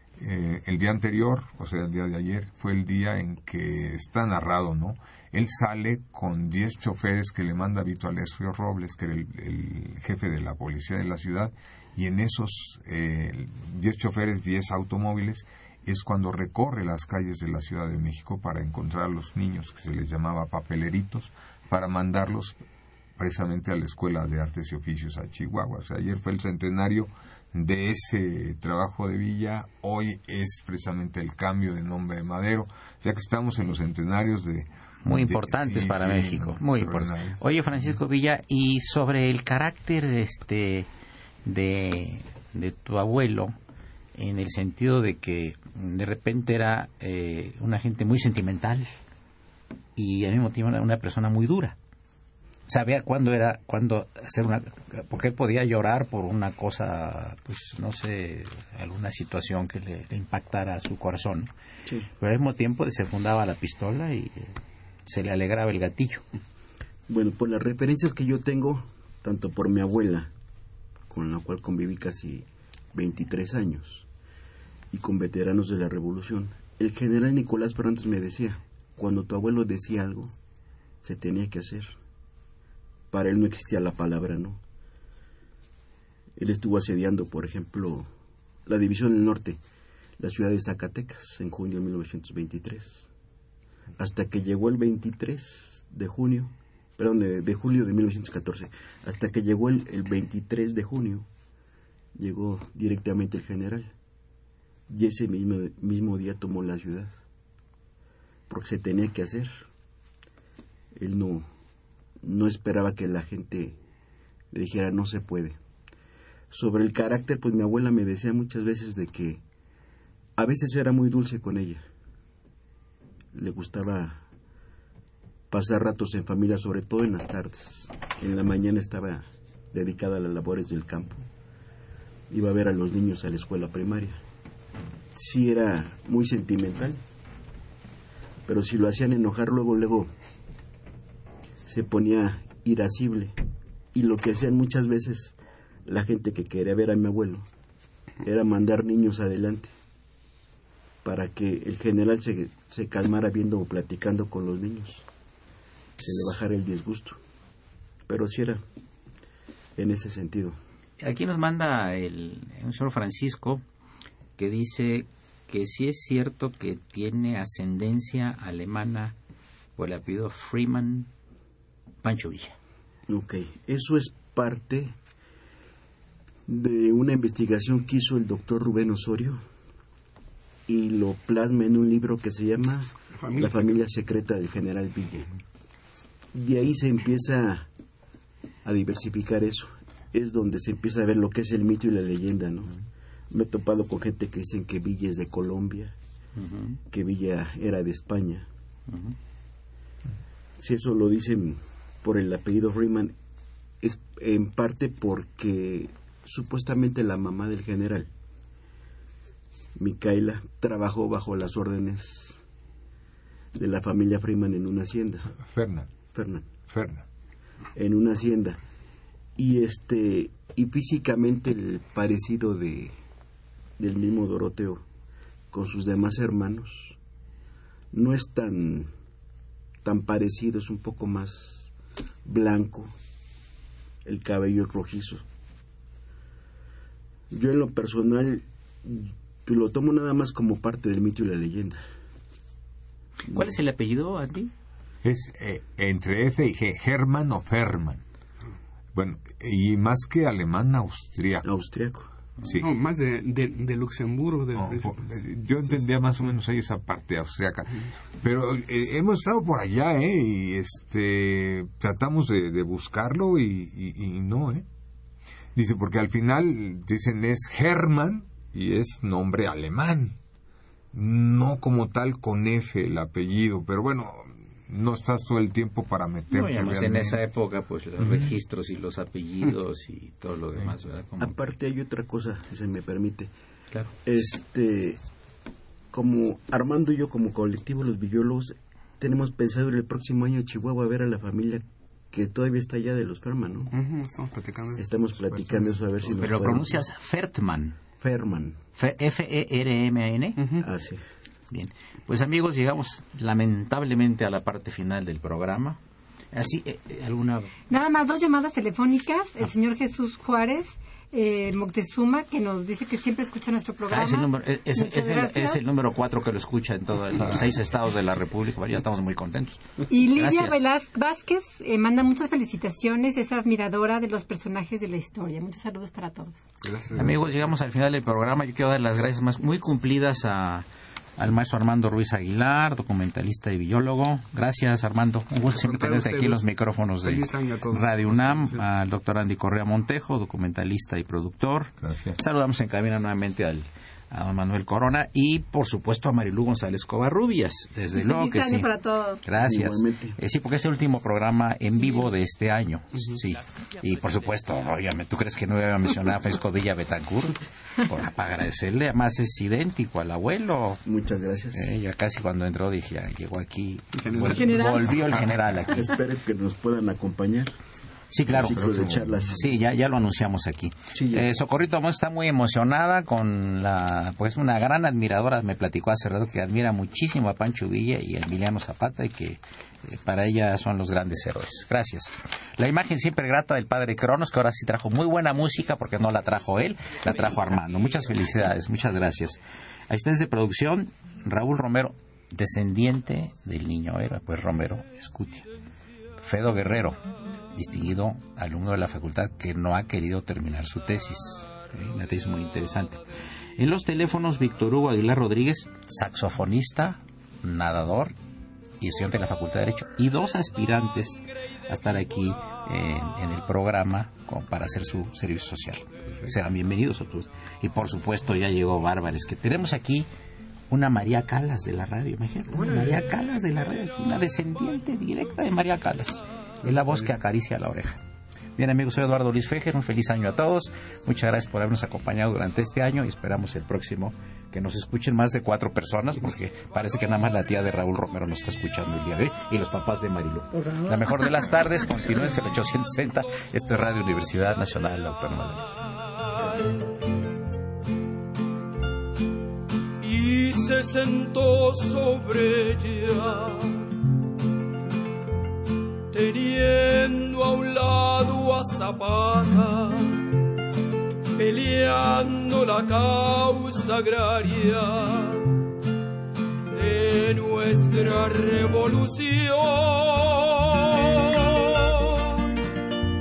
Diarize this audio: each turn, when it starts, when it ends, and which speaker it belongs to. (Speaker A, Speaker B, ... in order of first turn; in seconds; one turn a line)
Speaker A: 0.2-22.6
Speaker A: 23.2-37.9
Speaker B: 35.0-40.9
Speaker B: 41.5-43.5
Speaker B: 44.1-48.9
Speaker B: 50.0-51.8
Speaker B: 52.7-61.5
Speaker B: 62.2-64.5
Speaker B: 65.0-66.2
Speaker C: 67.1-70.3
Speaker C: 71.1-74.1
Speaker C: 74.9-80.3
Speaker C: 81.0-82.0
Speaker C: 83.1-84.6
Speaker C: 86.3-88.1
Speaker C: 88.7-89.6
Speaker C: 90.2-93.1
Speaker C: 94.0-101.3
Speaker C: 102.1-103.9
Speaker C: 104.9-107.2
Speaker C: 108.5-109.7
Speaker C: 111.0-111.5
Speaker C: 112.2-113.8
Speaker C: 114.5-115.6
Speaker C: 116.5-119.4
Speaker C: 120.4-121.8
Speaker C: 123.3-124.2
Speaker C: 125.5-131.2
Speaker C: 132.3-134.2
Speaker C: 135.1-137.0
Speaker C: 138.4-140.1
Speaker C: 141.7-143.3
Speaker C: 143.9-147.5
Speaker C: 148.2-149.7
Speaker C: 151.0-155.1
Speaker C: 156.0-157.2
Speaker C: 158.1-158.6
Speaker C: 159.8-160.6
Speaker B: 161.0-163.6
Speaker B: 164.4-169.2
Speaker B: 169.8-171.1
Speaker B: 172.0-172.6
Speaker C: 173.1-175.0
Speaker C: 176.5-179.4
Speaker C: 180.7-185.3
Speaker D: 183.1-183.8
Speaker C: 186.3-187.7
Speaker C: 188.6-192.7
Speaker C: 193.3-195.9
Speaker B: 196.4-196.8
Speaker C: 196.9-198.5
Speaker B: 198.9-199.2
Speaker C: 200.6-203.2
Speaker C: 203.8-208.1
Speaker C: 209.8-212.4
Speaker C: 213.5-215.3
Speaker A: 215.4-215.9
Speaker C: 216.1-216.5
Speaker A: 216.7-217.0
Speaker C: 217.7-218.6
Speaker C: 219.4-222.9
Speaker C: 223.8-224.8
Speaker C: 225.5-227.0
Speaker C: 227.9-228.9
Speaker C: 229.8-231.7
Speaker C: 232.2-232.9
Speaker C: 234.0-235.2
Speaker C: 237.3-241.8
Speaker B: 243.2-244.5
Speaker A: 245.0-248.0
Speaker A: 248.9-251.4
Speaker C: 251.4-252.1
Speaker A: 252.4-252.7
Speaker D: 252.6-255.8
Speaker A: 254.5-264.6
Speaker A: 265.5-270.2
Speaker A: 270.9-277.2
Speaker B: 276.3-281.4
Speaker A: 278.0-278.3
Speaker C: 281.2-283.3
Speaker C: 284.0-285.0
Speaker C: 285.9-293.7
Speaker D: 293.7-295.6
Speaker C: 294.8-296.8
Speaker B: 296.1-297.8
Speaker C: 298.0-298.6
Speaker B: 298.8-300.4
Speaker D: 300.4-300.7
Speaker C: 300.6-301.0
Speaker B: 301.5-305.8
Speaker B: 306.3-307.5
Speaker E: 307.7-315.6
Speaker B: 313.9-320.6
Speaker E: 319.9-326.4
Speaker D: 326.6-327.4
Speaker B: 326.9-330.6
Speaker B: 331.2-348.7
Speaker D: 335.5-338.6
Speaker A: 341.8-342.2
Speaker E: 347.9-349.2
Speaker B: 349.2-360.8
Speaker C: 349.4-350.2
Speaker C: 360.8-361.8
Speaker B: 361.5-365.7
Speaker D: 363.9-364.6
Speaker E: 364.3-365.3
Speaker A: 364.9-365.3
Speaker C: 365.6-367.5
Speaker B: 368.1-368.7
Speaker A: 368.2-369.4
Speaker C: 368.2-369.5
Speaker B: 369.2-389.4
Speaker C: 370.9-371.3
Speaker B: 389.9-395.5
Speaker B: 396.2-397.0
Speaker B: 397.5-403.0
Speaker B: 403.6-408.1
Speaker B: 408.8-420.1
Speaker B: 420.7-428.0
Speaker B: 428.6-445.8
Speaker F: 450.0-453.8
Speaker F: 456.1-460.3
Speaker F: 461.4-465.6
Speaker F: 466.7-472.3